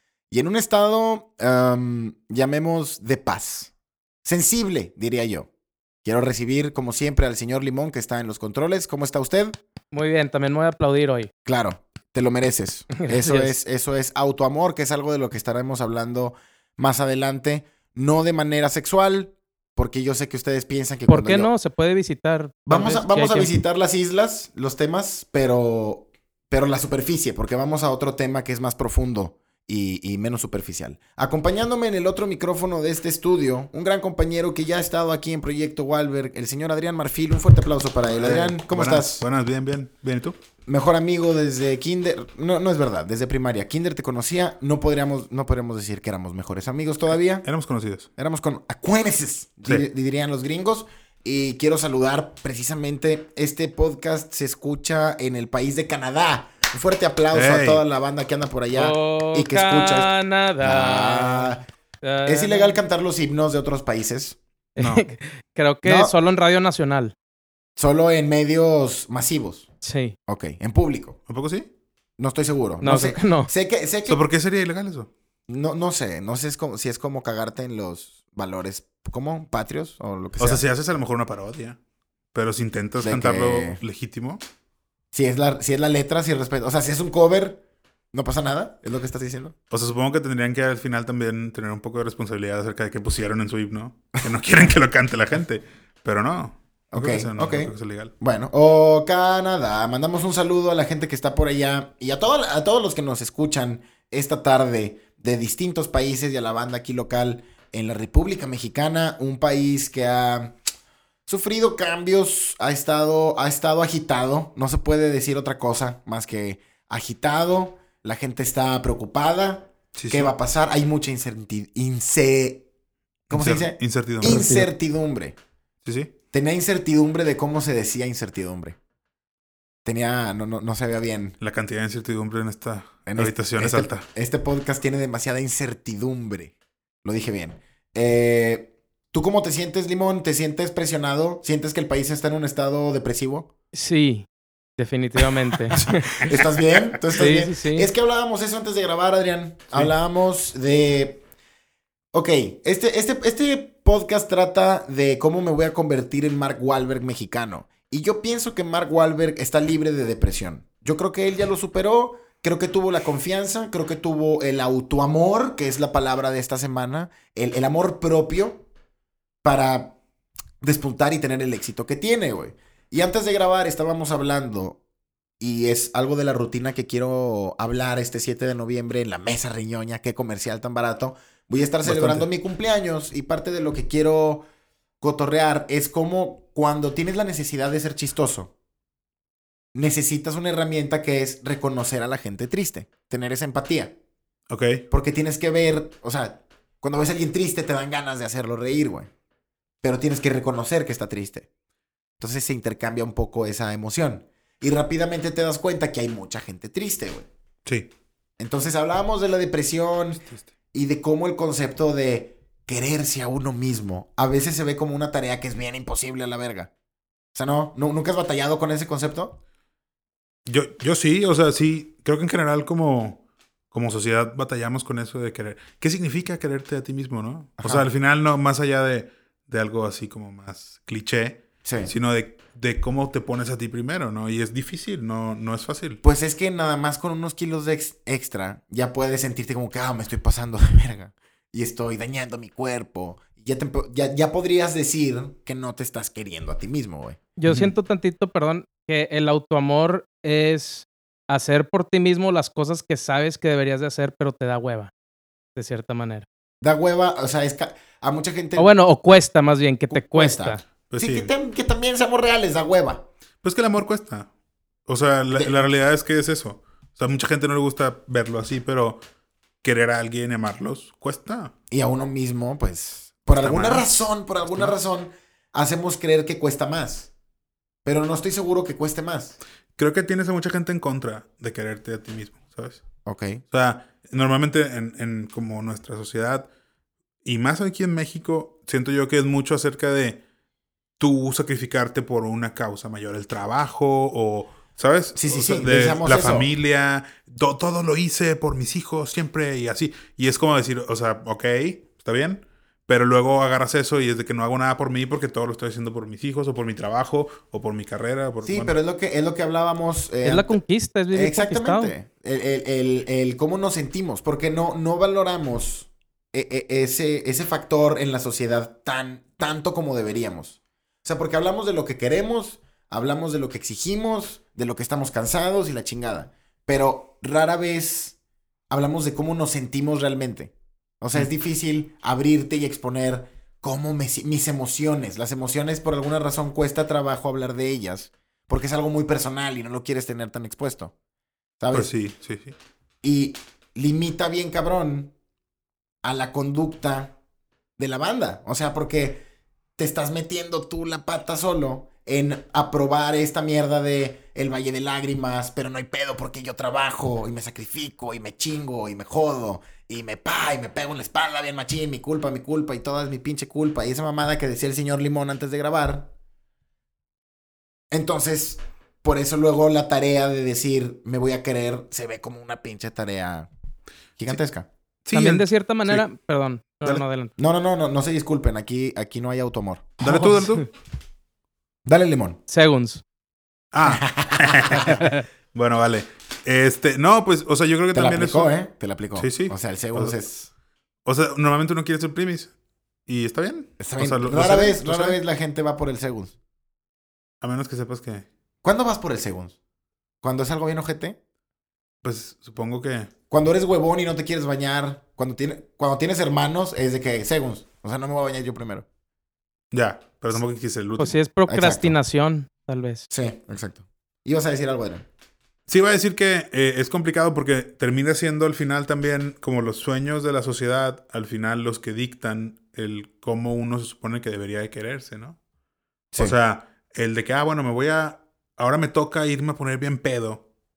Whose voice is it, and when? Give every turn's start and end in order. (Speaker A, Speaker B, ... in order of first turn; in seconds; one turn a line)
Speaker A: 0.3-3.7
Speaker A: 4.2-5.5
Speaker A: 6.0-9.6
Speaker B: 9.9-11.3
Speaker A: 11.5-21.5
Speaker B: 13.0-13.5
Speaker B: 21.1-23.5
Speaker A: 22.7-39.2
Speaker C: 38.2-40.4
Speaker A: 40.7-47.5
Speaker C: 47.4-48.1
Speaker A: 48.2-61.7
Speaker C: 57.3-57.8
Speaker B: 58.7-61.5
Speaker B: 62.0-62.8
Speaker A: 62.2-64.4
Speaker B: 64.8-67.1
Speaker A: 65.8-66.1
Speaker A: 67.8-69.7
Speaker B: 69.8-70.2
Speaker A: 70.3-71.2
Speaker C: 71.3-71.7
Speaker A: 72.2-74.2
Speaker B: 72.8-73.5
Speaker C: 74.1-75.1
Speaker A: 75.5-80.6
Speaker C: 80.4-81.8
Speaker C: 82.3-84.4
Speaker A: 83.0-83.8
Speaker A: 85.1-87.6
Speaker A: 88.1-89.5
Speaker C: 89.7-98.1
Speaker A: 96.9-110.6
Speaker A: 111.3-122.7
Speaker C: 120.0-120.3
Speaker C: 123.3-124.5
Speaker A: 123.3-125.3
Speaker B: 124.2-124.7
Speaker C: 125.8-126.1
Speaker A: 126.3-128.8
Speaker A: 129.8-131.4
Speaker C: 131.4-134.1
Speaker A: 133.1-143.5
Speaker B: 143.7-144.3
Speaker B: 144.8-146.3
Speaker A: 145.7-151.2
Speaker B: 147.1-147.9
Speaker A: 152.1-168.7
Speaker A: 169.4-170.0
Speaker A: 170.6-174.8
Speaker A: 175.4-184.5
Speaker C: 181.8-182.3
Speaker A: 185.0-188.5
Speaker A: 189.7-193.9
Speaker C: 194.5-194.8
Speaker A: 194.9-199.1
Speaker A: 199.8-201.5
Speaker A: 202.2-207.3
Speaker A: 208.4-216.7
Speaker A: 217.3-219.4
Speaker C: 220.5-223.2
Speaker C: 223.7-236.0
Speaker A: 227.6-227.9
Speaker A: 231.6-231.9
Speaker A: 236.0-247.2
Speaker B: 247.4-254.9
Speaker C: 247.5-247.8
Speaker B: 255.6-256.3
Speaker A: 256.6-258.7
Speaker B: 258.6-260.6
Speaker A: 259.9-263.1
Speaker C: 260.9-261.3
Speaker C: 263.4-264.3
Speaker C: 264.9-269.0
Speaker A: 265.3-265.6
Speaker C: 269.6-271.5
Speaker A: 271.7-277.1
Speaker C: 273.4-274.7
Speaker A: 277.9-279.4
Speaker C: 279.8-282.8
Speaker A: 283.1-283.4
Speaker C: 283.5-286.5
Speaker C: 287.2-290.2
Speaker C: 291.0-308.7
Speaker A: 295.2-296.5
Speaker A: 308.4-310.6
Speaker B: 310.2-311.9
Speaker A: 311.1-328.2
Speaker A: 328.7-340.9
Speaker A: 341.6-341.9
Speaker C: 341.7-342.6
Speaker A: 343.0-345.1
Speaker A: 346.0-347.1
Speaker A: 347.8-349.2
Speaker A: 349.8-366.1
Speaker A: 367.9-373.5
Speaker A: 374.2-374.7
Speaker C: 375.1-376.0
Speaker B: 375.1-377.3
Speaker A: 377.4-380.5
Speaker C: 380.0-380.7
Speaker A: 381.9-382.4
Speaker B: 382.5-383.0
Speaker C: 383.7-388.5
Speaker A: 383.9-385.0
Speaker A: 387.9-390.5
Speaker C: 389.2-390.1
Speaker C: 391.1-392.5
Speaker C: 393.1-395.2
Speaker A: 393.8-396.4
Speaker C: 397.4-398.3
Speaker A: 398.6-399.6
Speaker A: 400.2-401.2
Speaker C: 402.0-403.1
Speaker A: 403.3-408.9
Speaker C: 409.7-411.2
Speaker B: 411.0-413.1
Speaker A: 411.5-412.0
Speaker A: 413.1-415.1
Speaker C: 415.7-425.4
Speaker C: 426.2-430.4